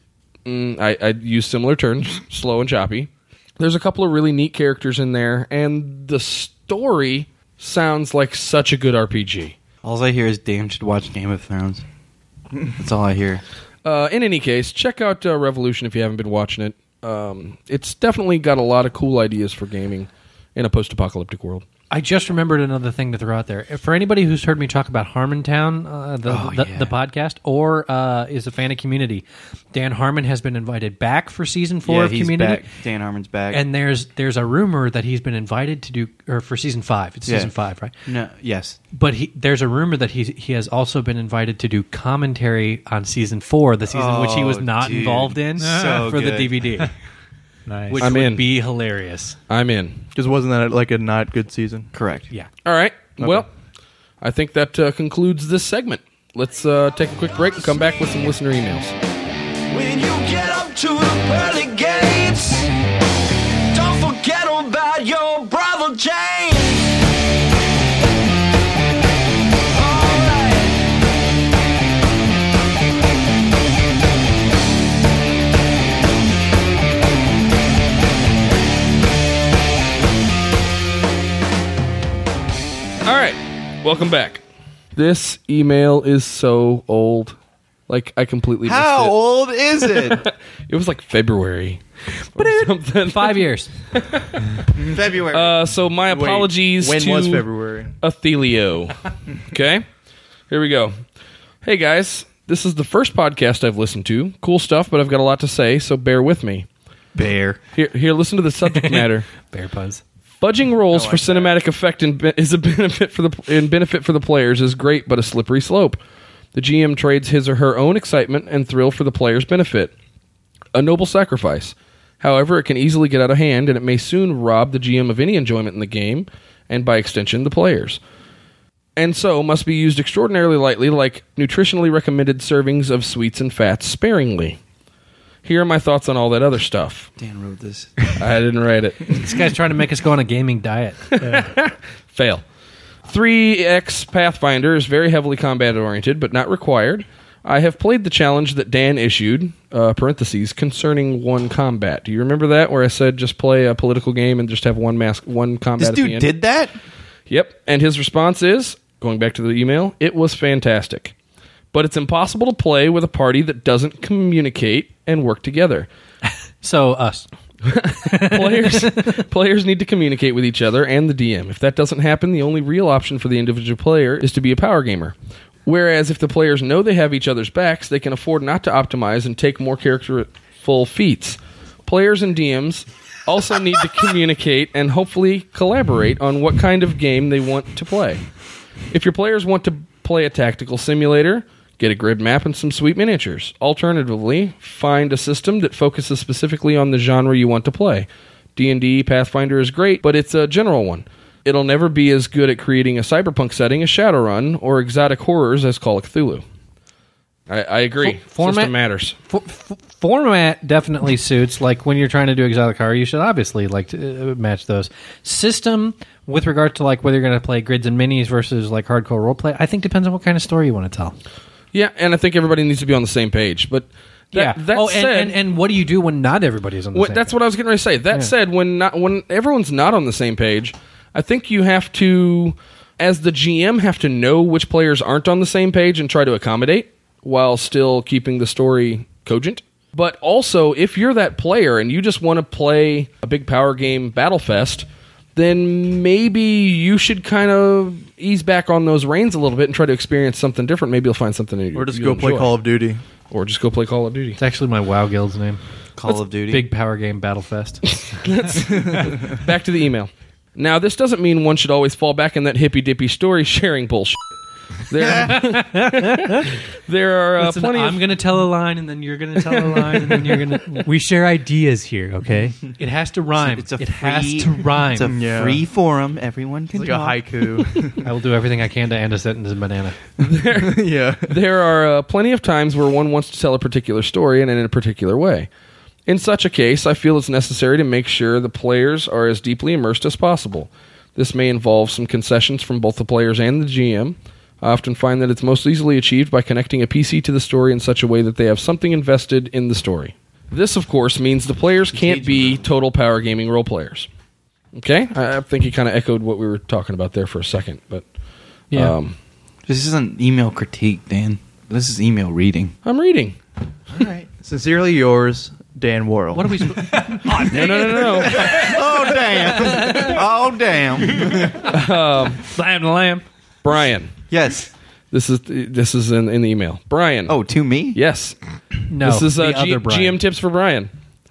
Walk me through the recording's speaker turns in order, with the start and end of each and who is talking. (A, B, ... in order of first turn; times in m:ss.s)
0:00.4-0:09.6 A
0:09.8-0:11.8 B
0:12.8-0:13.4 B
0:13.8-0:21.6 A
0:21.9-0:32.7 C
0:26.3-0:26.9 B
0:31.8-0:33.6 B
0:33.5-0:37.9 C
0:37.3-0:37.5 B
0:38.1-0:38.8 B
0:38.9-0:46.9 C
0:43.9-0:46.6 B
0:45.6-0:46.1 D
0:47.7-0:48.0 D
0:47.9-0:49.4 C
0:48.0-0:48.5 A
0:49.5-0:50.1 A
0:50.1-0:51.9 E
0:51.9-0:52.3 B
0:52.6-0:53.5 A
0:54.2-0:59.0 A
0:59.7-1:02.7 F
1:03.7-1:06.9 F
1:09.7-1:10.8 F
1:23.0-1:24.4 A
1:25.0-1:27.4 A
1:27.9-1:29.2 A
1:28.6-1:30.2 B
1:29.8-1:31.8 A
1:32.4-1:34.6 A
1:32.4-1:33.7 C
1:34.8-1:35.6 B
1:35.3-1:37.5 A
1:36.0-1:38.0 E
1:38.0-1:39.0 A
1:39.5-1:39.9 A
1:40.5-1:41.0 A
1:41.6-1:46.7 A
1:47.2-1:47.6 B
1:47.7-1:49.3 A
1:48.6-1:50.0 C
1:50.4-1:56.0 A
1:50.9-1:51.6 E
1:56.5-1:59.9 A
2:00.8-2:08.0 A
2:09.0-2:14.6 A
2:15.4-2:17.1 A
2:17.2-2:17.9 B
2:18.2-2:19.2 A
2:19.1-2:21.2 C
2:21.1-2:22.4 A
2:23.1-2:36.3 A
2:35.8-2:36.7 B
2:37.3-2:41.2 A
2:41.7-2:45.9 A
2:46.6-2:47.3 C
2:47.6-3:08.2 A
2:48.0-2:49.2 C
3:08.9-3:26.4 A
3:27.5-3:29.2 A
3:28.0-3:28.7 C
3:29.3-3:41.2 C
3:41.7-3:45.4 A
3:44.3-3:47.4 C
3:46.9-4:12.6 A
4:11.8-4:13.0 E
4:13.3-4:14.4 A
4:14.4-4:17.8 C
4:16.0-4:16.7 B
4:18.0-4:24.2 A
4:18.8-4:19.4 E
4:24.9-4:28.0 A
4:25.3-4:26.5 C
4:27.4-4:30.9 C
4:29.6-4:30.3 A
4:30.8-4:32.6 D
4:32.8-4:35.1 C
4:33.4-4:37.2 B
4:35.1-4:35.6 E
4:36.7-4:38.0 E
4:38.0-4:40.0 C
4:40.2-4:45.5 A
4:40.5-4:41.3 E
4:46.1-5:04.1 A
5:01.9-5:02.6 B
5:04.7-5:08.0 A
5:08.7-5:09.2 A
5:09.7-5:12.8 B
5:12.8-5:13.4 A
5:13.9-5:14.3 B
5:14.4-5:17.1 E
5:16.3-5:18.8 C
5:17.4-5:18.4 A
5:18.3-5:21.6 B
5:19.8-5:20.1 C
5:21.6-5:22.4 A
5:22.5-5:23.2 C
5:23.6-5:24.1 A
5:24.3-5:24.7 B
5:25.1-5:27.4 A
5:27.3-5:28.0 B
5:27.9-5:28.4 A
5:28.9-5:30.2 C
5:29.0-5:30.9 A